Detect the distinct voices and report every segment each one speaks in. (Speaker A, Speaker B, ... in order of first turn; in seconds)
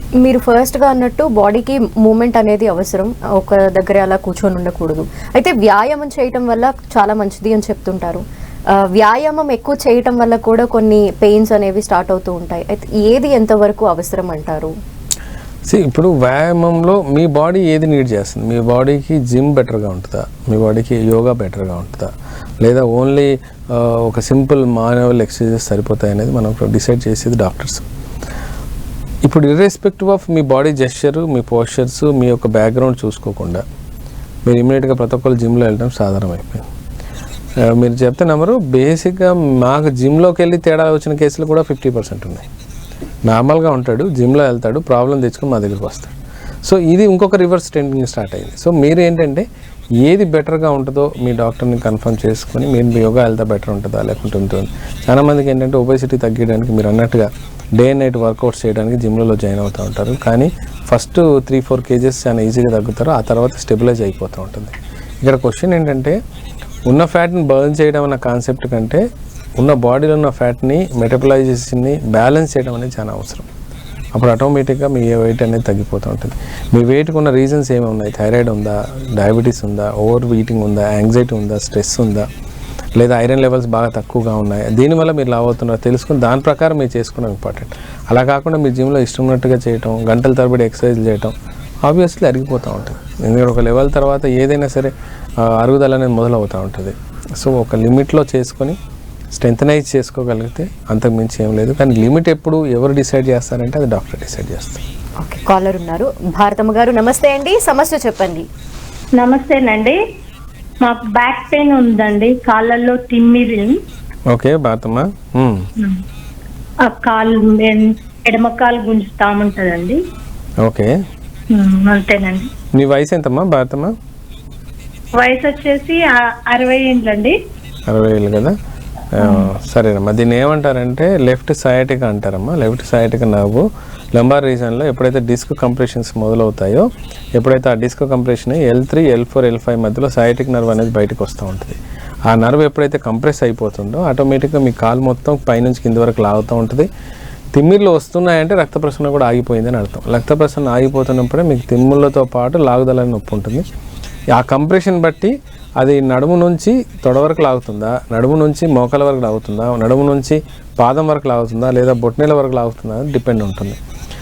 Speaker A: 0.2-14.7, 105.2-108.5
Speaker B: 15.7-22.1, 22.6-27.8, 29.2-33.6, 34.5-36.7, 37.6-42.5, 43.2-49.5, 50.0-66.2, 66.8-69.0, 69.6-73.5, 74.1-82.3, 82.9-98.8, 99.3-104.8, 114.3-115.7, 120.6-120.9, 122.7-123.9, 127.9-128.6, 129.1-146.9, 147.5-153.7, 154.3-163.8
Speaker C: 109.2-110.0, 110.8-113.8, 116.8-120.0, 121.5-122.5, 125.1-127.4, 129.2-129.5